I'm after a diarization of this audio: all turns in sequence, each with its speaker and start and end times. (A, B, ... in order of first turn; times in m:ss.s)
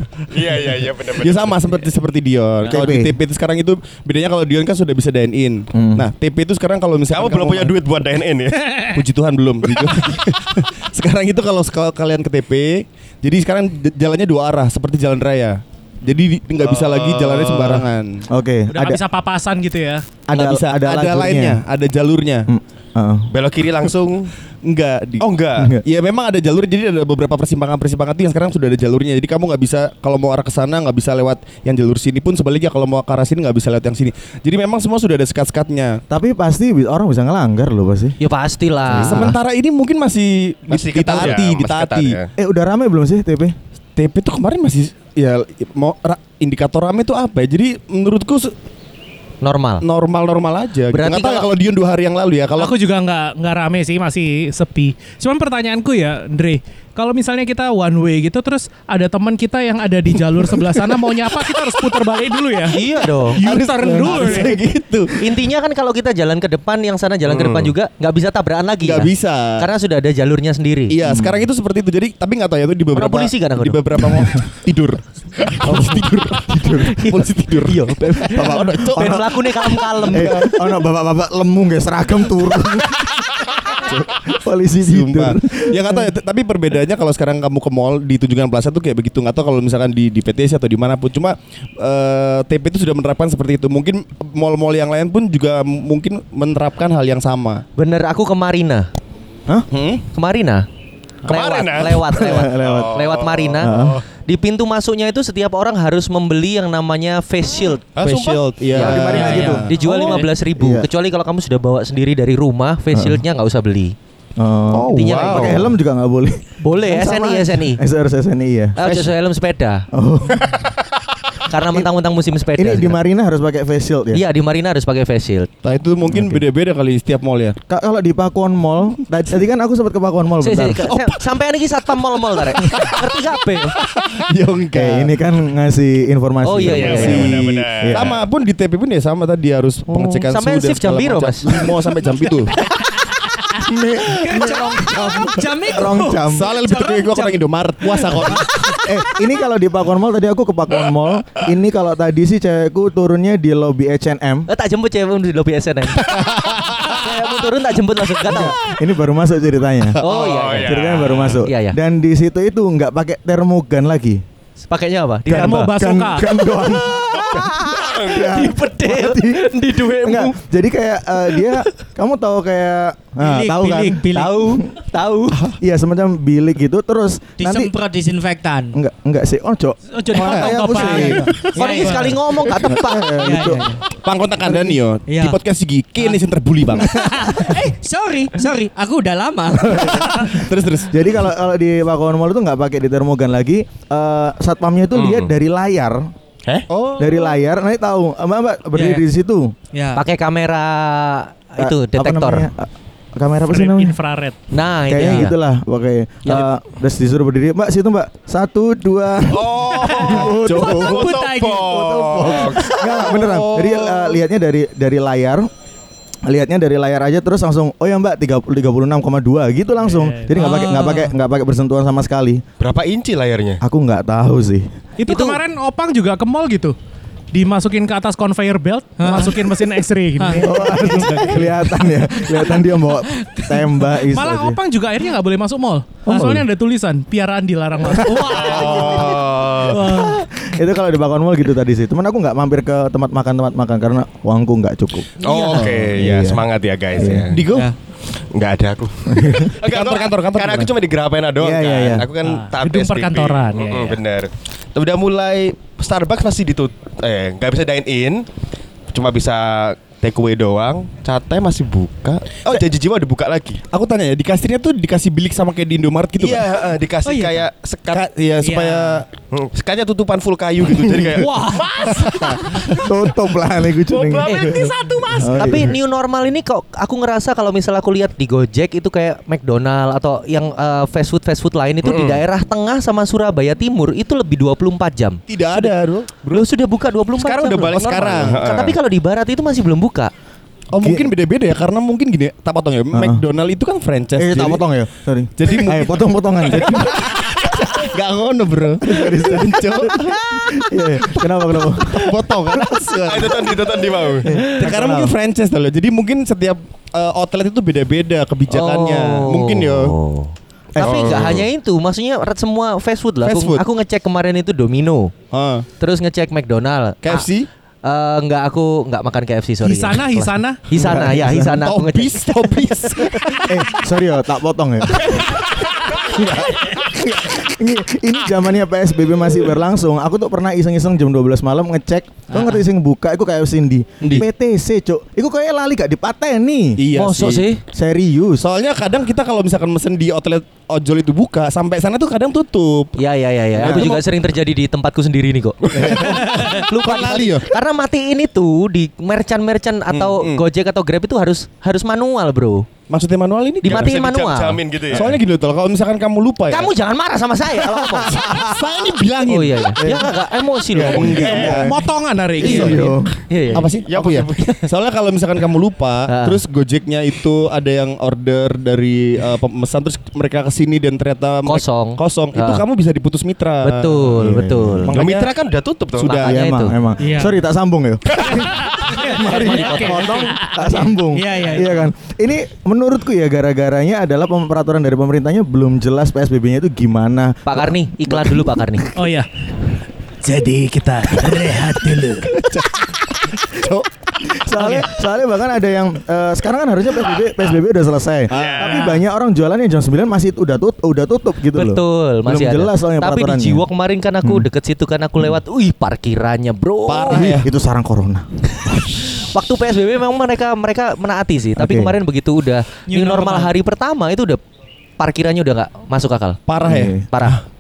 0:00.3-0:01.8 A
0:01.2-0:07.8 B
0:02.7-0:03.2 C
0:05.7-0:06.1 C
0:07.1-0:08.9 A
0:08.8-0:18.3 B
0:16.6-0:17.8 A
0:18.3-0:19.0 C
0:18.7-0:20.0 D
0:20.3-0:21.6 C
0:20.3-0:22.5 B
0:22.5-0:23.3 C
0:23.3-0:24.3 A
0:24.6-0:36.0 B
0:25.2-0:25.8 A
0:36.1-0:38.2 C
0:38.2-0:39.4 E
0:38.9-0:39.3 C
0:38.9-0:42.2 B
0:40.7-0:42.3 A
0:42.4-0:43.6 C
0:44.0-0:48.6 B
0:49.4-0:49.8 E
0:49.8-0:52.8 B
0:50.9-0:51.5 E
0:52.6-1:02.8 D
1:02.7-1:03.4 E
1:03.4-1:04.6 D
1:03.4-1:05.3 B
1:04.2-1:04.5 E
1:05.2-1:11.0 E
1:07.3-1:07.8 A
1:08.8-1:09.7 B
1:10.9-1:19.3 B
1:11.0-1:11.4 C
1:12.9-1:14.1 E
1:15.7-1:17.1 C
1:16.9-1:20.5 E
1:18.3-1:26.1 C
1:19.9-1:20.5 B
1:24.8-1:37.6 B
1:37.8-1:38.9 E
1:39.7-1:40.0 B
1:40.1-1:40.7 E
1:41.2-1:44.0 A
1:41.3-1:48.0 E
1:42.0-1:43.0 C
1:43.6-1:44.0 C
1:48.0-1:49.3 A
1:48.0-1:49.7 B
1:48.7-1:54.0 E
1:48.8-1:50.9 C
1:49.3-1:50.2 F
1:52.9-1:53.2 C
1:54.4-1:59.0 C
1:54.7-1:55.7 B
1:54.9-1:55.7 E
1:55.0-1:55.4 A
1:56.6-1:57.8 E
1:58.8-1:59.9 E
1:59.9-2:00.6 C
2:01.5-2:03.0 E
2:02.6-2:04.2 C
2:04.1-2:05.5 E
2:05.6-2:07.6 B
2:06.1-2:06.4 C
2:07.7-2:11.0 C
2:10.4-2:13.8 E
2:13.9-2:15.1 B
2:14.7-2:18.1 C
2:16.4-2:17.4 E
2:16.6-2:18.2 A
2:16.7-2:22.6 B
2:19.9-2:21.7 E
2:23.6-2:26.5 C
2:24.0-2:29.1 F
2:26.2-2:28.7 B
2:28.8-2:34.5 C
2:34.5-2:38.6 E
2:36.2-2:37.0 A
2:38.2-2:44.2 C
2:40.0-2:41.4 A
2:40.0-2:41.8 E
2:44.7-2:45.7 E
2:45.3-2:54.8 C
2:45.3-2:46.3 D
2:46.6-2:50.3 E
2:47.7-2:48.2 A
2:51.3-2:51.6 E
2:53.2-2:54.6 F
2:54.1-2:55.4 E
2:55.6-2:57.7 C
2:57.4-2:58.8 F
2:58.7-3:01.4 C
2:59.9-3:02.2 D
3:00.2-3:00.5 B
3:00.8-3:02.2 F
3:01.6-3:03.2 E
3:02.6-3:03.7 C
3:03.2-3:03.8 F
3:04.0-3:07.0 B
3:04.5-3:04.8 C
3:05.1-3:05.4 F
3:06.8-3:10.4 F
3:09.6-3:10.4 C
3:10.3-3:10.9 B
3:10.9-3:16.1 C
3:15.0-3:15.3 A
3:16.7-3:17.2 B
3:17.0-3:19.5 C
3:18.7-3:19.0 F
3:19.7-3:20.0 F
3:20.0-3:22.5 E
3:21.6-3:24.0 C
3:23.5-3:24.4 D
3:24.5-3:25.4 E
3:24.9-3:35.5 C
3:29.3-3:33.9 A
3:29.7-3:31.9 F
3:30.4-3:31.0 B
3:36.3-3:42.4 C
3:39.8-3:40.4 D
3:40.3-3:41.1 F
3:42.6-3:43.6 A
3:43.6-3:44.7 C
3:45.0-3:46.8 D
3:45.1-3:45.4 E
3:47.3-3:51.1 D
3:49.0-3:49.4 F
3:50.2-3:50.5 F
3:50.4-3:54.6 C
3:51.2-3:51.5 B
3:52.2-3:53.8 F
3:54.1-3:58.8 D
3:56.1-3:56.5 C
3:58.0-3:58.7 C
3:58.0-3:59.1 F
3:58.2-3:59.9 A
3:59.7-4:00.2 D
3:59.7-4:06.4 C
4:05.2-4:07.4 A
4:07.0-4:07.3 C
4:07.3-4:07.7 B
4:08.2-4:18.2 A
4:09.1-4:09.5 C
4:09.6-4:10.7 B
4:11.4-4:12.1 C
4:12.2-4:14.0 D
4:18.9-4:23.6 A
4:23.7-4:26.4 B
4:26.2-4:28.1 A
4:27.0-4:27.4 F
4:27.9-4:29.0 B
4:28.4-4:29.0 F
4:29.3-4:33.0 A
4:30.8-4:31.2 B
4:31.3-4:31.7 D
4:31.4-4:32.0 F
4:32.6-4:35.8 C
4:33.9-4:35.7 A
4:34.3-4:50.1 E
4:41.8-4:42.2 A
4:45.3-4:46.5 B
4:47.2-4:48.6 B
4:47.6-4:48.8 A
4:50.7-4:54.6 B
4:50.8-4:51.1 C
4:52.9-4:53.2 C
4:54.2-4:57.9 C
4:55.4-5:00.2 B
4:58.8-5:02.9 C
5:01.6-5:03.6 B
5:03.1-5:04.3 A
5:04.2-5:05.2 C
5:04.4-5:10.0 B
5:08.5-5:15.2 E
5:10.8-5:11.2 C
5:10.8-5:11.5 A
5:13.2-5:13.6 B
5:15.3-5:15.7 B
5:15.8-5:17.3 E
5:17.0-5:17.5 B
5:17.8-5:23.4 E
5:19.6-5:20.6 D
5:20.7-5:21.6 C
5:21.5-5:23.7 B
5:23.5-5:36.8 C
5:32.3-5:32.6 F
5:34.0-5:34.3 B
5:36.8-5:37.5 B
5:36.9-5:37.6 E
5:37.7-5:38.4 C
5:38.4-5:43.0 B
5:43.0-5:52.7 E
5:43.5-5:44.0 B
5:43.6-5:44.0 C
5:45.7-5:47.5 B
5:49.9-5:50.4 B
5:52.9-5:54.0 B
5:53.6-5:54.6 E
5:53.6-5:55.2 A
5:54.9-5:56.7 B
5:56.5-5:58.2 E
5:57.8-5:58.6 C
5:58.0-5:59.9 B
5:59.2-6:01.6 E
5:59.8-6:00.2 C
6:00.7-6:01.8 C
6:00.8-6:01.7 B
6:01.5-6:02.9 D
6:02.4-6:03.1 C
6:02.4-6:02.9 B
6:02.4-6:03.7 E
6:03.5-6:14.0 B
6:03.8-6:04.6 A
6:06.1-6:06.4 E
6:11.4-6:12.6 E
6:13.6-6:14.9 E
6:14.1-6:15.1 C
6:14.9-6:16.2 A
6:14.9-6:15.3 B
6:16.0-6:16.4 B
6:16.0-6:16.8 E
6:16.2-6:28.9 C
6:17.0-6:17.4 F
6:18.4-6:20.6 D
6:19.2-6:20.2 E
6:21.1-6:21.9 F
6:27.5-6:28.9 E
6:29.0-6:29.3 D
6:30.2-6:32.3 D
6:32.2-6:33.9 B
6:34.3-6:43.7 C
6:34.6-6:34.8 D
6:38.3-6:38.8 A
6:38.3-6:38.8 B
6:41.5-6:47.4 E
6:44.2-6:44.5 C
6:46.9-6:47.5 B
6:47.1-6:48.3 C
6:49.0-6:54.4 E
6:51.6-6:52.0 C
6:52.9-6:53.5 F
6:55.0-6:56.4 E
6:56.5-6:57.3 B
6:56.6-6:57.1 C
6:57.1-6:57.4 E